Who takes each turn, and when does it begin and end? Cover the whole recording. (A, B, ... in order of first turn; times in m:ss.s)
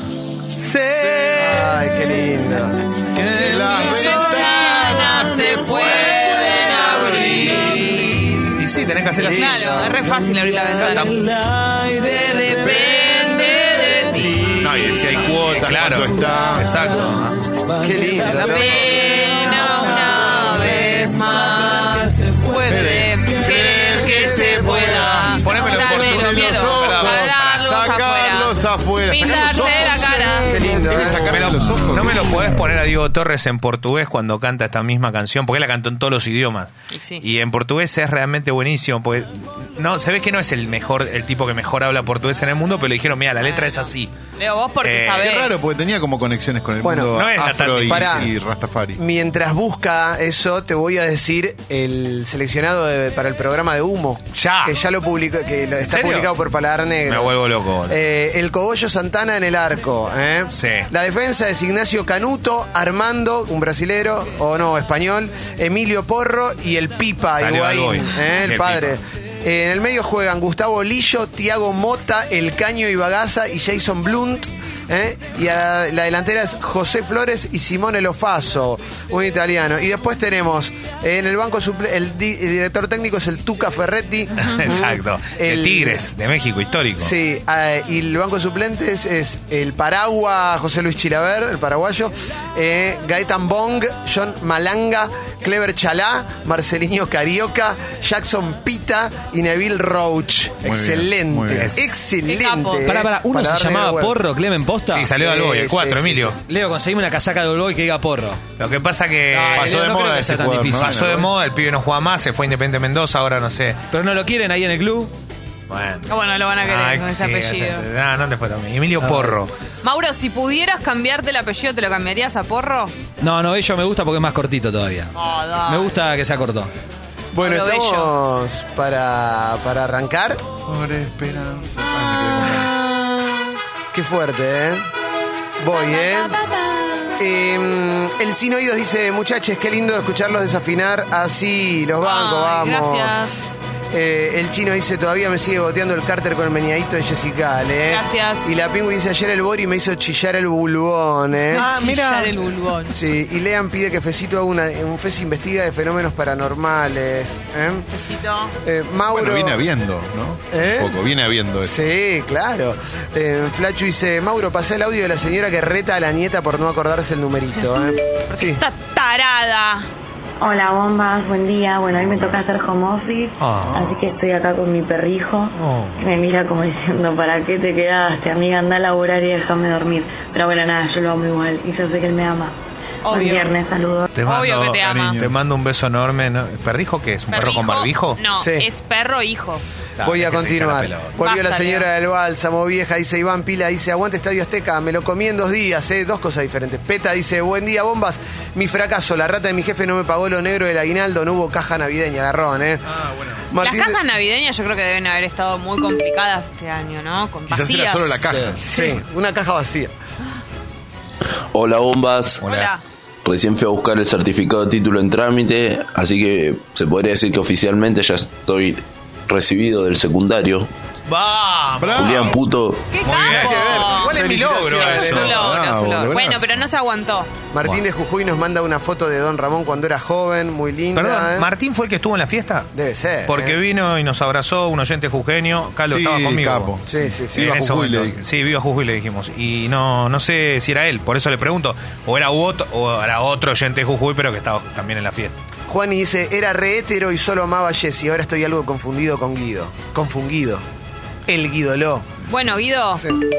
0:00.6-0:02.8 A
0:01.0-0:01.7 B
0:03.2-0:07.8 B
0:03.6-0:08.5 C
0:08.5-0:09.9 D
0:09.1-0:10.0 A
0:09.2-0:11.2 C
0:10.8-0:11.3 D
0:11.8-0:15.3 C
0:14.6-0:16.7 B
0:15.4-0:17.4 D
0:17.7-0:19.3 A
0:18.2-0:30.6 C
0:22.6-0:32.4 B
0:23.9-0:25.4 A
0:25.4-0:27.6 D
0:30.4-0:31.6 A
0:31.1-0:44.1 D
0:36.9-0:37.2 C
0:43.4-0:45.7 C
0:44.8-0:45.3 D
0:45.2-0:49.0 B
0:46.8-0:47.2 A
0:47.2-0:48.2 D
0:47.8-0:48.3 A
0:49.0-0:57.3 A
0:54.3-0:54.8 D
0:55.8-0:56.3 D
0:57.0-0:58.0 D
0:57.9-1:26.0 A
1:00.5-1:00.9 D
1:07.3-1:09.0 D
1:24.4-1:27.1 D
1:27.0-1:44.2 A
1:40.6-1:41.7 B
1:41.6-1:41.9 D
1:42.2-1:42.9 C
1:42.8-1:45.1 E
1:44.9-1:46.4 D
1:45.1-1:46.4 A
1:46.4-1:48.4 E
1:48.6-1:49.8 D
1:49.3-1:51.1 E
1:49.6-1:51.3 B
1:50.8-1:53.8 D
1:53.9-1:55.1 E
1:55.7-1:56.1 D
1:56.1-1:57.8 C
1:56.6-1:59.5 D
1:59.0-1:59.3 A
1:59.8-2:02.9 C
2:03.2-2:05.1 E
2:05.2-2:06.0 C
2:05.7-2:06.7 E
2:07.3-2:10.5 A
2:07.4-2:08.1 C
2:10.6-2:12.7 B
2:11.9-2:13.6 C
2:13.9-2:14.9 A
2:15.6-2:16.4 A
2:15.8-2:17.2 C
2:17.2-2:23.2 A
2:22.0-2:23.3 C
2:23.9-2:31.7 A
2:27.9-2:28.5 C
2:31.5-2:33.0 C
2:31.5-2:32.4 D
2:32.9-2:37.9 A
2:37.9-2:38.5 C
2:38.6-2:39.6 A
2:39.1-2:41.8 B
2:40.5-2:41.0 A
2:41.6-2:48.6 A
2:48.3-2:49.8 C
2:50.4-3:02.6 F
2:53.4-2:53.9 D
2:55.5-2:56.0 D
3:03.0-3:03.5 C
3:03.1-3:04.1 F
3:04.2-3:08.2 D
3:04.2-3:05.2 C
3:04.8-3:05.3 B
3:07.3-3:09.6 C
3:08.4-3:08.7 A
3:10.0-3:11.1 D
3:10.0-3:22.8 A
3:11.2-3:11.9 C
3:22.9-3:23.4 B
3:23.5-3:24.0 A
3:23.6-3:28.9 C
3:27.5-3:28.8 B
3:28.3-3:29.9 A
3:31.5-3:32.4 G
3:32.4-3:32.7 D
3:32.5-3:32.8 C
3:33.2-3:40.7 G
3:41.1-3:42.3 D
3:41.8-3:42.4 B
3:42.0-3:42.9 G
3:42.9-3:44.1 C
3:43.0-3:45.4 D
3:43.2-3:45.4 A
3:44.8-3:47.3 C
3:44.9-3:46.6 B
3:47.5-3:51.5 A
3:50.9-3:52.7 D
3:52.7-3:53.6 A
3:53.3-3:56.7 D
3:55.9-3:58.2 B
3:56.9-3:57.5 A
3:57.3-4:05.3 D
4:05.7-4:10.7 A
4:11.3-4:12.1 A
4:12.3-4:13.0 C